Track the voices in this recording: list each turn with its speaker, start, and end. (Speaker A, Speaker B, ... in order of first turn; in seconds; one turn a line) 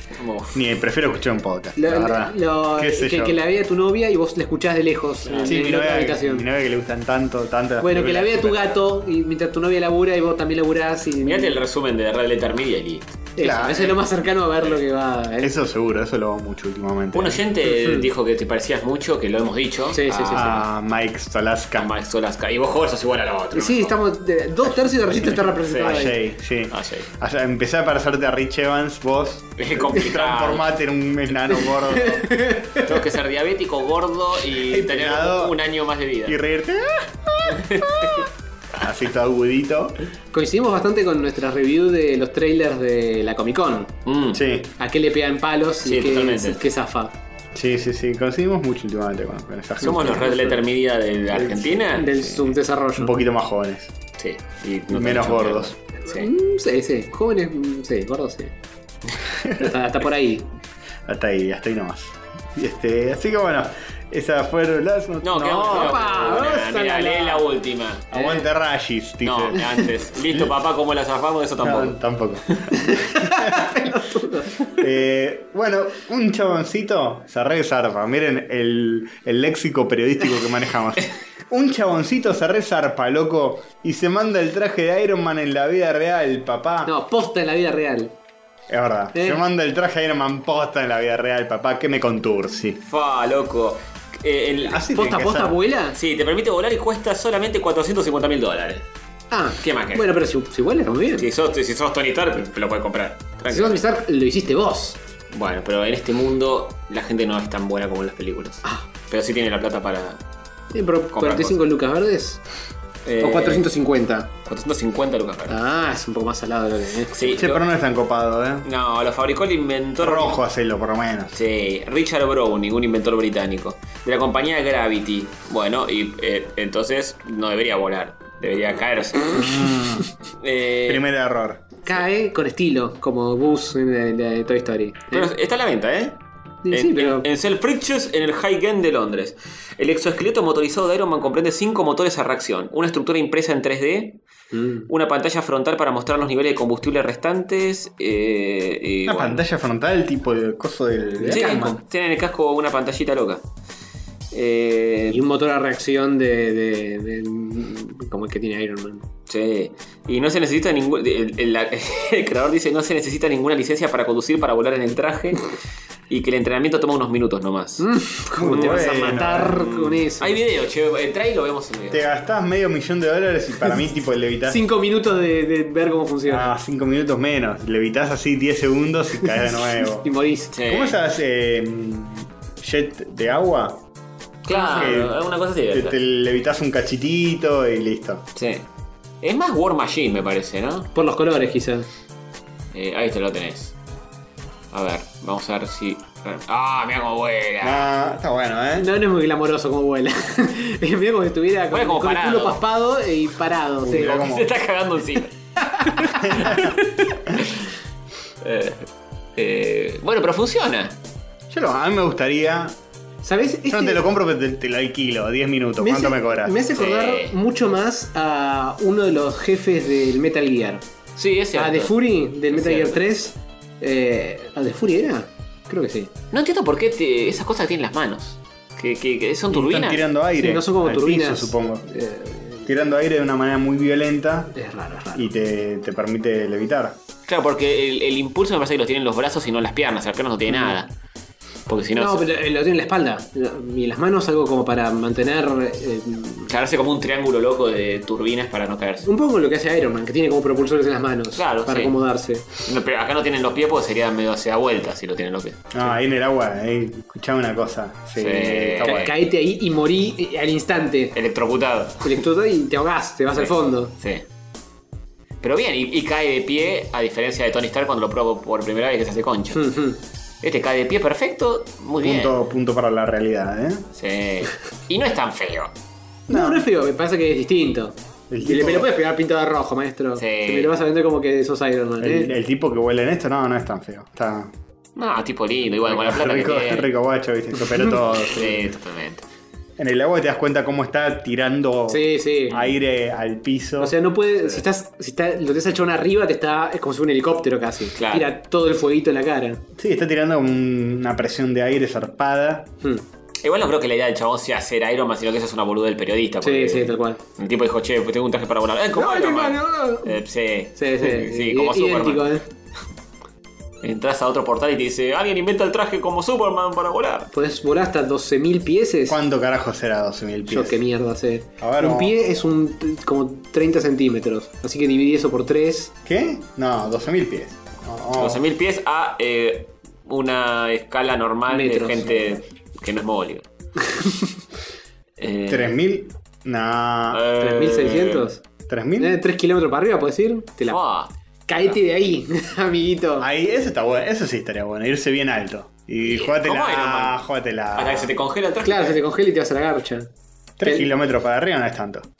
Speaker A: 0.1-0.7
Speaker B: 0.5-3.4
Speaker C: 1.8-6.4
Speaker A: 5.2-5.6
Speaker B: 5.4-8.8
Speaker C: 7.8-11.6
Speaker A: 11.2-13.3
Speaker C: 13.3-15.5
Speaker B: 13.4-14.0
Speaker B: 15.4-17.4
Speaker A: 17.1-20.6
Speaker C: 17.6-18.1
Speaker C: 19.9-20.6
Speaker B: 20.3-21.9
Speaker A: 21.8-24.0
Speaker C: 23.5-26.2
Speaker A: 25.3-26.1
Speaker B: 25.8-32.3
Speaker A: 26.7-27.1
Speaker A: 29.6-30.7
Speaker C: 31.6-32.9
Speaker A: 32.8-36.4
Speaker B: 34.6-35.5
Speaker B: 36.2-38.2
Speaker A: 37.5-38.3
Speaker B: 38.8-40.0
Speaker C: 40.3-43.9
Speaker A: 44.0-44.4
Speaker B: 44.3-44.7
Speaker C: 44.8-47.1
Speaker A: 45.8-46.6
Speaker B: 47.5-50.5
Speaker A: 49.8-52.1
Speaker B: 51.3-53.9
Speaker C: 52.0-53.1
Speaker A: 54.2-56.3
Speaker B: 54.9-55.7
Speaker C: 56.0-58.5
Speaker B: 59.4-59.6
Speaker C: 59.6-60.5
Speaker B: 61.0-66.0
Speaker A: 65.2-68.1
Speaker C: 65.7-67.5
Speaker C: 68.1-68.5
Speaker B: 68.1-69.8
Speaker A: 69.2-72.0
Speaker B: 71.6-73.9
Speaker C: 72.8-74.5
Speaker B: 74.8-86.9
Speaker C: 86.8-88.1
Speaker B: 88.7-92.8
Speaker C: 89.1-89.4
Speaker A: 92.8-94.9
Speaker B: 94.6-95.5
Speaker C: 94.9-96.0
Speaker A: 95.9-98.8
Speaker C: 99.3-101.2
Speaker A: 99.6-100.2
Speaker A: 101.2-103.8
Speaker C: 103.5-105.0
Speaker A: 105.3-110.2
Speaker C: 110.7-112.4
Speaker A: 111.1-111.6
Speaker A: 113.0-113.7
Speaker C: 113.2-114.3
Speaker A: 114.5-115.6
Speaker C: 115.5-117.4
Speaker A: 117.2-117.7
Speaker B: 117.4-118.7
Speaker A: 118.6-120.4
Speaker B: 120.0-121.3
Speaker A: 121.3-129.6
Speaker B: 129.4-130.1
Speaker A: 130.4-131.1
Speaker B: 130.8-131.6
Speaker C: 131.8-135.3
Speaker A: 135.1-144.2
Speaker C: 136.6-137.2
Speaker C: 144.5-144.9
Speaker A: 144.9-149.4
Speaker B: 149.0-151.8
Speaker C: 151.2-151.5
Speaker A: 151.3-153.4
Speaker A: 154.3-155.2
Speaker C: 155.1-159.0
Speaker A: 159.3-165.5
Speaker A: 166.1-167.9
Speaker C: 167.8-170.4
Speaker B: 168.3-169.5
Speaker A: 168.5-172.1
Speaker B: 171.9-174.6
Speaker C: 174.5-176.5
Speaker B: 176.3-180.1
Speaker C: 180.0-180.5
Speaker A: 180.5-181.0
Speaker B: 180.7-183.8
Speaker A: 184.4-186.0
Speaker C: 184.5-185.0
Speaker B: 184.7-185.2
Speaker B: 185.7-188.2
Speaker A: 188.3-188.7
Speaker A: 189.2-190.9
Speaker C: 190.9-191.9
Speaker A: 192.7-193.7
Speaker A: 194.7-197.9
Speaker B: 197.6-198.9
Speaker C: 198.7-204.2
Speaker A: 201.7-202.6
Speaker B: 203.8-204.5
Speaker A: 203.9-205.3
Speaker C: 205.7-206.3
Speaker A: 205.8-207.7
Speaker A: 208.4-211.0
Speaker B: 211.5-212.8
Speaker C: 213.2-214.0
Speaker B: 213.7-216.6
Speaker C: 215.8-220.8
Speaker A: 216.7-217.3
Speaker A: 221.2-223.0
Speaker C: 221.5-226.1
Speaker A: 226.3-230.0
Speaker B: 229.5-231.9
Speaker C: 230.3-232.7
Speaker B: 232.6-234.5
Speaker C: 234.5-235.3
Speaker B: 235.1-237.0
Speaker A: 237.3-240.9
Speaker A: 241.7-242.3
Speaker C: 242.0-246.5
Speaker A: 246.5-249.1
Speaker C: 249.0-252.4
Speaker A: 251.3-251.9
Speaker A: 252.6-255.9
Speaker B: 255.7-259.1
Speaker A: 258.2-259.1
Speaker C: 258.8-261.2
Speaker A: 261.1-262.2
Speaker C: 262.0-263.9
Speaker A: 263.3-264.2
Speaker A: 265.4-269.7
Speaker C: 269.5-270.0
Speaker A: 270.4-272.3
Speaker B: 272.0-273.9
Speaker A: 273.9-275.7
Speaker B: 276.3-276.6
Speaker C: 276.3-282.3
Speaker B: 278.3-278.9
Speaker A: 280.2-280.8
Speaker B: 282.0-284.5
Speaker A: 284.9-286.9
Speaker B: 285.8-288.6
Speaker A: 288.2-289.2
Speaker B: 289.8-293.9
Speaker C: 291.9-292.6
Speaker C: 293.8-299.6
Speaker A: 298.0-298.3
Speaker B: 299.8-302.7
Speaker A: 303.4-312.4
Speaker C: 306.4-307.2
Speaker C: 308.9-310.2
Speaker C: 310.8-312.4
Speaker A: 313.8-317.3
Speaker C: 317.3-319.2
Speaker B: 319.1-320.8
Speaker C: 320.5-325.9
Speaker B: 321.6-322.1
Speaker B: 326.0-328.4
Speaker A: 328.1-333.4
Speaker C: 331.5-332.4
Speaker C: 333.8-334.3
Speaker A: 335.2-335.8
Speaker B: 335.5-337.2
Speaker A: 337.1-338.3
Speaker C: 337.4-338.4
Speaker B: 338.7-339.2
Speaker C: 339.0-340.8
Speaker A: 340.7-341.1
Speaker C: 341.5-343.3
Speaker B: 343.2-348.1
Speaker A: 346.0-347.2
Speaker A: 347.7-349.0
Speaker C: 348.6-350.1
Speaker B: 350.6-352.1
Speaker C: 350.6-350.9